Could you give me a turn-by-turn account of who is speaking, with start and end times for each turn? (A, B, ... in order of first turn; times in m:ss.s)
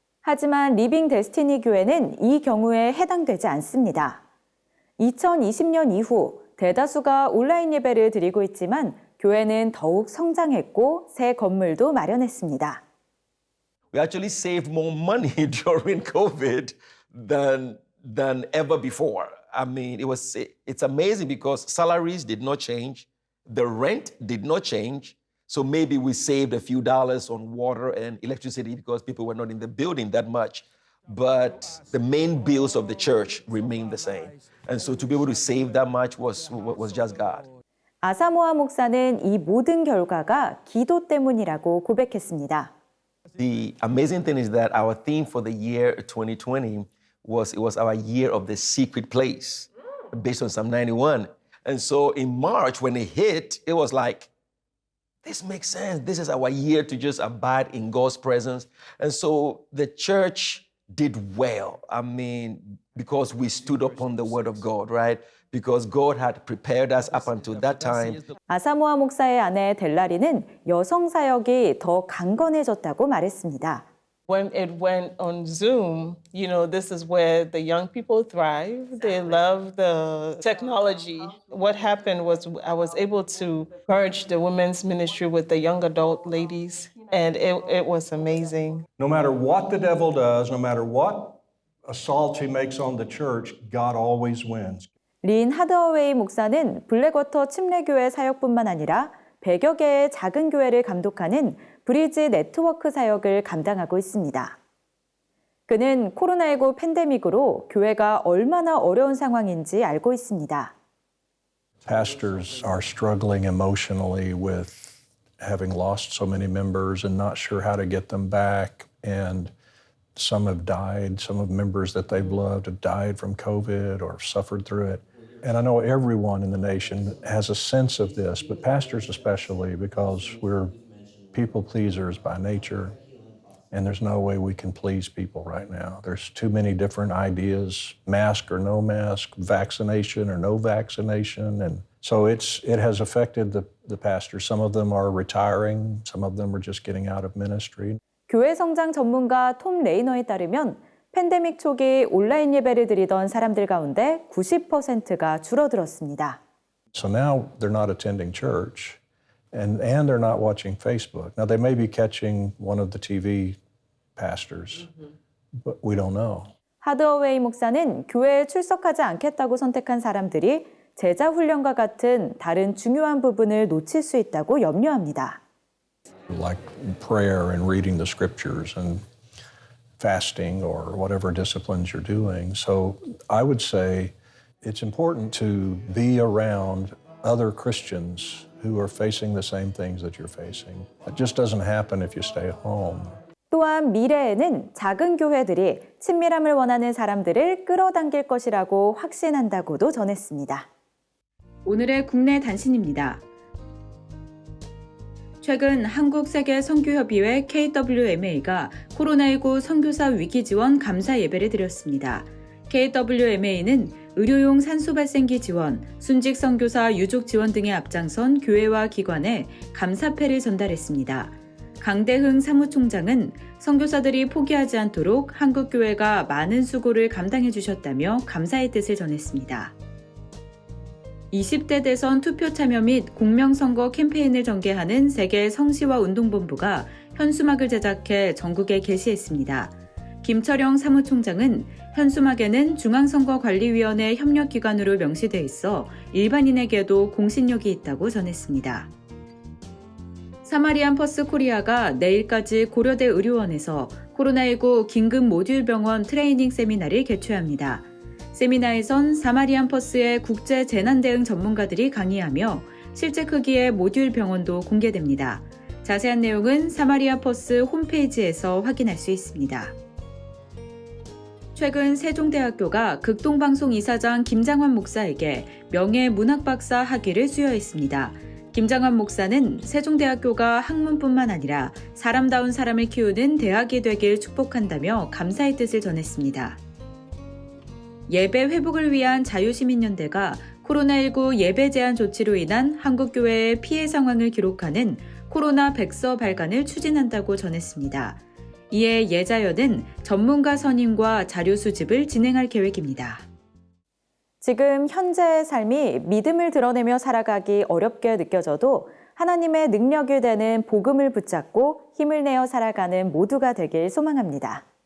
0:00.2-0:04.2 A
0:05.0-0:12.8 A
0:13.9-0:37.5 B
0:38.0-0:42.7 A
0:43.4-0:54.3 B
0:55.2-1:08.3 B
1:08.5-1:13.8 A
1:14.3-1:28.9 C
1:29.0-1:34.9 D
1:35.2-1:44.6 A
1:45.7-1:50.8 A
1:51.8-1:59.5 D
2:00.2-2:10.8 D
2:11.3-2:13.0 D
2:13.7-2:28.0 D
2:28.3-2:36.4 A
2:36.9-2:39.0 D
2:39.5-2:43.6 D
2:44.2-2:44.9 D
2:45.6-2:46.5 D
2:46.8-2:55.4 A
2:56.3-2:59.0 D
3:00.0-3:13.2 D
3:13.5-3:20.7 A
3:21.6-3:23.2 A
3:25.4-3:49.8 A
3:51.3-4:08.9 A
4:10.4-4:29.8 A
4:31.6-4:46.6 A
4:48.1-5:03.3 A
5:04.4-5:14.6 A